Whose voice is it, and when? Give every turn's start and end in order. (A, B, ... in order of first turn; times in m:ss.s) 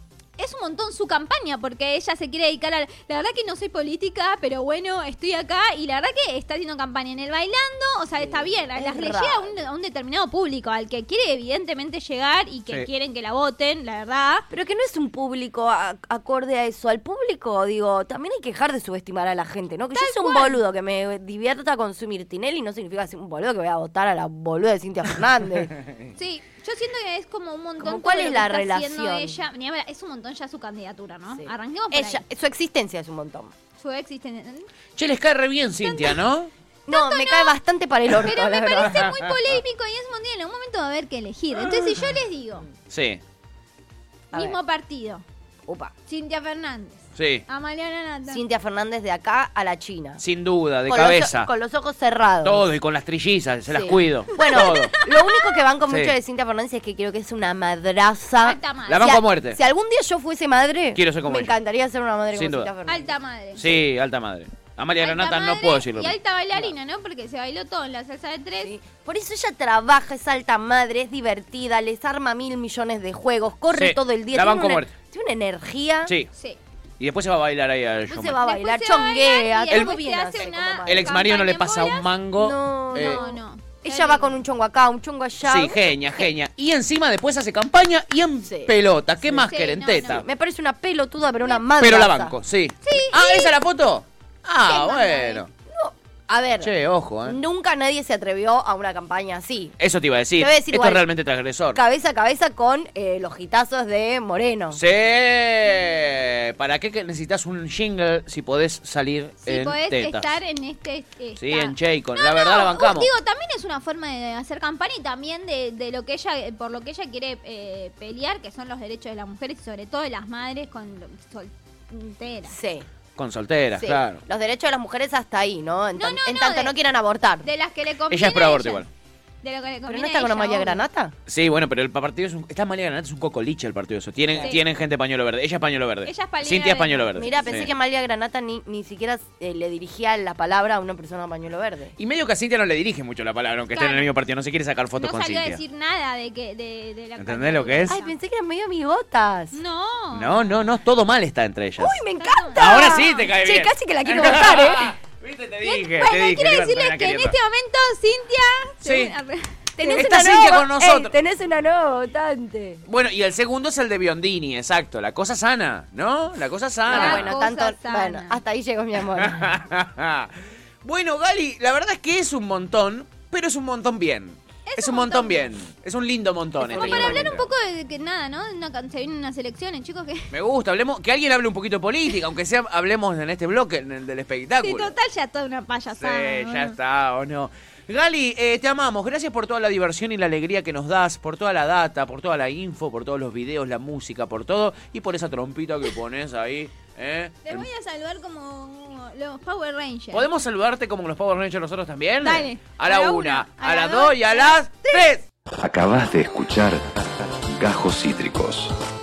0:00.4-0:14.4 A
0:08.2-0:09.6 B
0:14.5-0:25.7 B
0:19.9-0:20.6 A
0:26.2-0:32.2 A
0:27.8-0:29.4 B
0:31.3-0:33.5 B
0:33.8-0:34.7 A
0:35.0-0:36.5 C
0:35.8-0:36.2 A
0:36.9-0:37.6 A
0:36.9-0:39.0 B
0:38.2-0:42.6 A
0:38.9-0:39.5 C
0:41.6-0:42.0 B
0:42.9-0:43.2 C
0:44.3-0:45.2 A
0:45.7-0:45.9 B
0:46.1-0:48.4 A
0:47.2-0:47.4 C
0:48.3-0:50.2 B
0:50.2-0:51.5 C
0:50.9-0:52.7 B
0:52.4-0:54.9 C
0:53.7-1:03.1 B
0:54.3-0:55.6 A
0:55.9-0:56.1 C
0:58.4-0:59.2 A
0:58.9-0:59.6 C
1:00.9-1:01.5 C
1:02.3-1:02.7 C
1:02.9-1:03.8 A
1:03.6-1:06.2 C
1:05.0-1:08.7 A
1:08.6-1:16.1 B
1:13.7-1:14.9 C
1:16.3-1:16.6 A
1:17.0-1:18.4 C
1:18.1-1:21.2 B
1:18.4-1:22.1 A
1:19.7-1:20.0 C
1:20.8-1:23.2 C
1:22.4-1:26.2 B
1:22.9-1:24.3 A
1:25.4-1:30.3 C
1:28.4-1:29.5 B
1:29.4-1:30.2 A
1:30.0-1:32.4 B
1:31.8-1:35.5 C
1:32.8-1:33.6 A
1:34.6-1:35.4 A
1:35.7-1:39.8 B
1:36.6-1:37.4 C
1:39.8-1:41.8 C
1:40.4-1:41.1 B
1:41.7-1:44.8 B
1:44.7-1:50.3 C
1:49.4-2:02.6 A
1:51.4-1:53.1 C
2:02.5-2:02.8 B
2:03.2-2:04.2 C
2:03.8-2:07.5 B
2:06.0-2:06.7 A
2:07.4-2:08.8 A
2:08.1-2:08.9 C
2:09.4-2:10.8 A
2:09.9-2:11.1 B
2:11.3-2:17.7 C
2:14.3-2:14.6 B
2:16.0-2:17.7 A
2:17.2-2:21.9 B
2:22.0-2:25.6 C
2:23.7-2:24.1 A
2:25.0-2:28.1 A
2:27.2-2:28.0 C
2:27.9-2:29.6 B
2:29.5-2:30.7 A
2:30.1-2:32.0 C
2:31.8-2:35.0 B
2:32.2-2:33.2 A
2:32.6-2:37.4 C
2:35.6-2:39.6 A
2:38.8-2:39.2 C
2:39.8-2:42.8 B
2:39.8-2:41.2 C
2:42.8-2:47.4 C
2:46.9-2:48.4 A
2:46.9-2:49.5 B
2:49.2-2:57.5 C
2:54.6-2:55.5 A
2:56.6-2:57.3 B
2:56.7-3:00.3 A
3:00.3-3:04.9 C
3:04.6-3:06.8 A
3:06.0-3:17.7 C
3:17.4-3:20.3 A
3:20.1-3:25.2 C
3:22.2-3:25.1 A
3:25.6-3:28.8 D